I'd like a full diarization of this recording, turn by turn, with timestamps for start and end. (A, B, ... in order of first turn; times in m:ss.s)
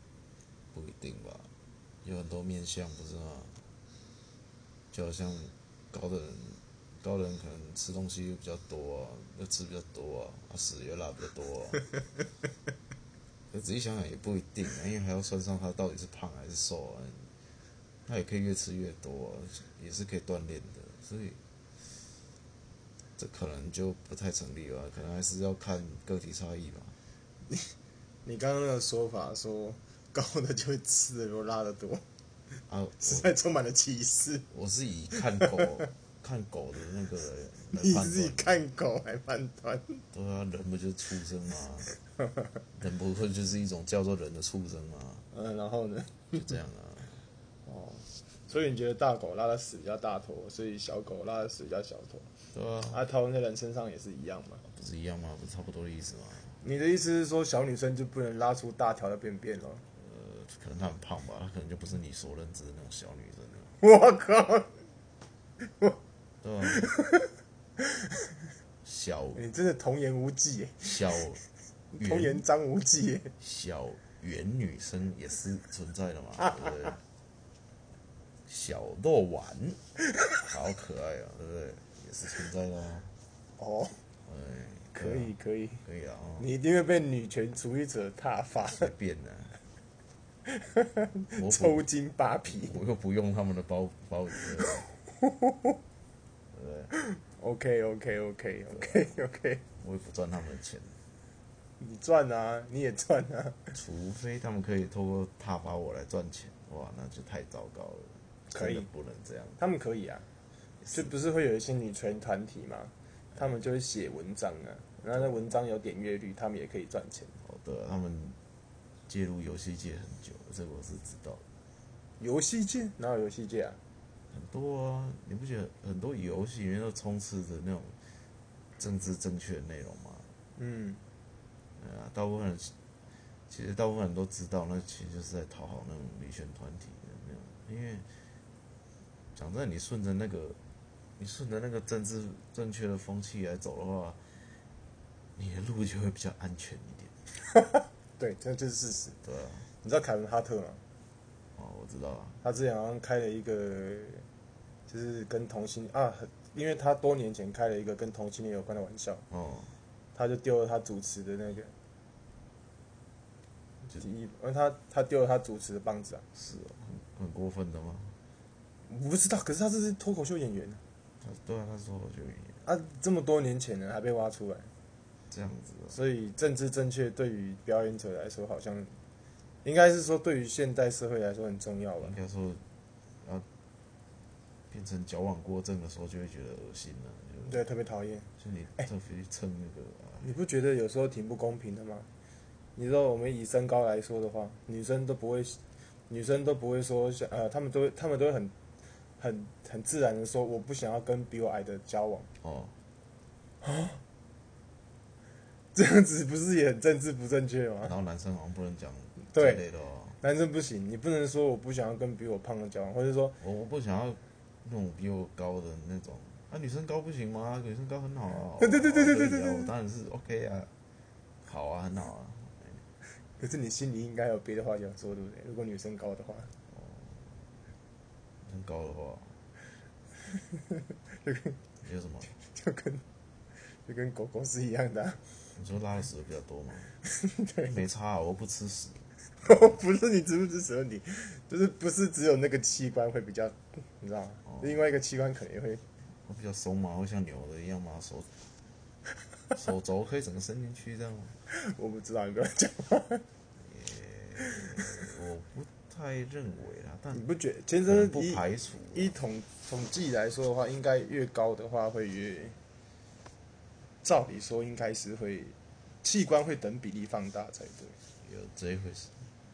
0:00.7-0:01.5 A
0:02.0-0:03.7 A
0:04.9-0:11.9 A
0:13.5-0:17.3 A
0:18.1-0:21.4 A
0:23.2-0:27.0 A
0:27.5-0:27.7 B
0:28.2-0:32.0 B
0:32.7-0:33.3 A
0:33.0-0:34.5 B
0:34.5-0:38.6 A
0:35.2-0:35.6 B
0:37.7-0:40.0 B
0:40.1-0:42.0 A
0:42.7-0:45.3 A
0:45.3-0:46.5 B
0:46.3-0:47.2 A
0:47.6-0:52.3 B
0:52.5-0:53.0 A
0:52.9-0:54.6 B
0:54.6-0:56.6 A
0:56.6-0:59.8 B
1:00.0-1:03.8 A
1:03.8-1:04.7 B
1:05.6-1:06.0 B
1:06.4-1:06.9 A
1:06.8-1:08.0 B
1:08.8-1:09.4 A
1:09.4-1:11.0 B
1:10.8-1:11.4 A
1:11.9-1:13.3 B
1:12.0-1:12.4 A
1:13.4-1:17.0 A
1:18.5-1:19.8 A
1:20.5-1:23.1 A
1:23.6-1:24.0 B
1:24.2-1:26.5 A
1:25.0-1:25.8 B
1:26.4-1:28.9 B
1:28.7-1:29.6 A
1:30.5-1:32.8 B
1:31.4-1:31.9 A
1:32.4-1:34.8 A
1:34.7-1:35.3 B
1:36.5-1:36.9 A
1:36.9-1:39.6 B
1:38.7-1:39.1 A
1:39.8-1:41.0 A
1:41.8-1:43.8 B
1:43.7-1:49.6 A
1:48.5-1:48.9 B
1:49.6-1:50.3 B
1:50.8-1:51.1 A
1:50.9-1:57.3 B
1:57.4-1:58.4 A
1:59.1-2:01.4 A
2:02.2-2:03.8 B
2:04.3-2:08.0 A
2:08.8-2:10.3 A
2:10.6-2:11.0 B
2:11.8-2:12.7 A
2:13.5-2:18.1 A
2:19.3-2:20.6 A
2:21.2-2:24.6 A
2:25.4-2:27.2 A
2:27.5-2:29.2 B
2:29.2-2:29.7 A
2:29.8-2:30.8 B
2:31.6-2:32.4 A
2:32.4-2:34.3 B
2:34.9-2:39.2 B
2:39.3-2:39.8 A
2:40.2-2:41.7 B
2:44.0-2:46.2 B
2:46.3-2:48.2 A
2:48.9-2:50.8 B
2:51.2-2:52.6 A
2:52.6-2:54.7 B
2:55.3-2:56.0 A
2:55.9-2:59.0 B
2:59.6-3:02.2 B
3:02.0-3:02.7 A
3:03.2-3:03.5 A
3:04.7-3:07.7 A
3:07.5-3:08.3 B
3:08.4-3:10.3 A
3:10.2-3:12.1 B
3:12.8-3:18.5 B
3:19.2-3:22.3 B
3:22.4-3:22.8 A
3:23.6-3:24.0 B
3:25.8-3:27.9 B
3:27.8-3:30.2 A
3:29.3-3:29.6 B
3:30.2-3:33.4 B
3:33.4-3:40.7 A
3:38.6-3:39.7 B
3:41.4-3:42.8 A
3:43.2-3:46.5 B
3:46.7-3:47.4 A
3:48.4-3:49.4 A
3:51.1-3:51.6 B
3:51.8-3:52.4 A
3:52.4-3:53.0 B
3:53.6-3:55.2 B
3:55.5-3:57.0 A
3:57.1-3:57.8 B
3:57.7-3:59.1 A
3:59.4-4:05.8 B
4:04.4-4:04.8 A
4:06.1-4:08.3 A
4:09.5-4:11.4 A
4:11.5-4:13.2 B
4:13.6-4:17.2 A
4:17.1-4:22.6 B
4:17.8-4:19.1 A
4:24.0-4:28.0 B
4:28.2-4:29.2 A